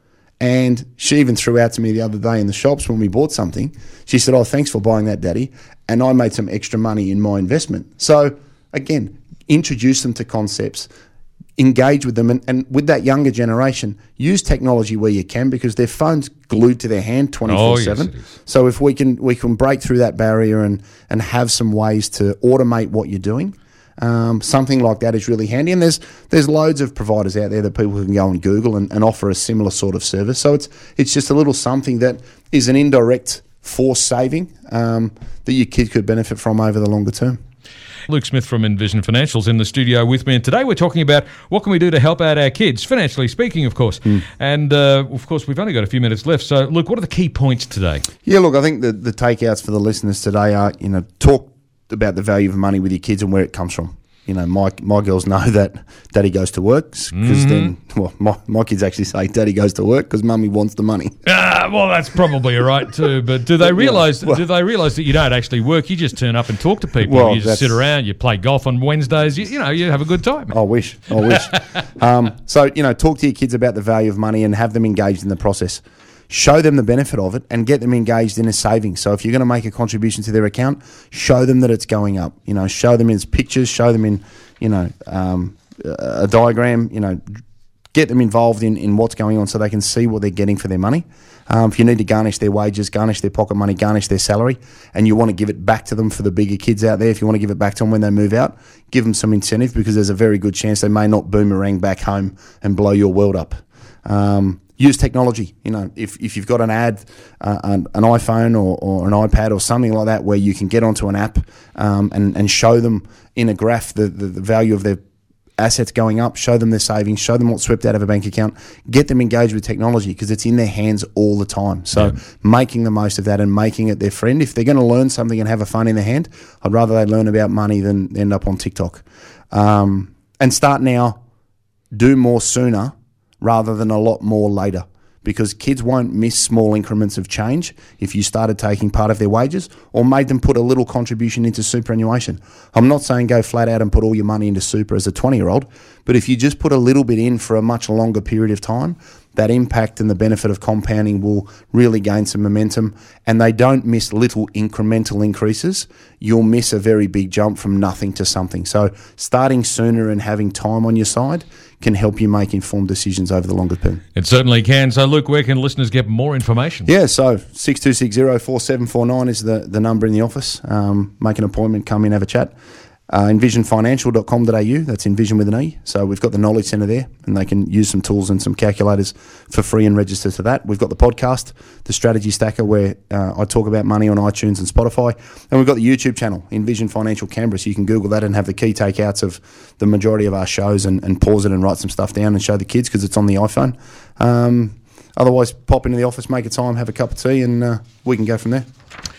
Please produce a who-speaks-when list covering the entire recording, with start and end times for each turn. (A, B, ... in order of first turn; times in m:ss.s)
0:00.4-0:10.9 A
0:11.6-0:37.4 A
0:17.4-0:18.2 B
0:38.1-0:48.0 B
0:48.2-1:01.1 A
0:57.1-0:57.7 B
1:01.2-1:10.6 B
1:03.6-1:04.4 A
1:07.0-1:07.8 A
1:10.5-1:27.4 A
1:11.2-1:11.6 B
1:27.9-1:55.0 A
1:55.6-2:11.2 A
2:11.9-2:44.0 A
2:44.1-2:46.9 B
2:46.8-2:52.5 A
2:53.1-3:18.6 A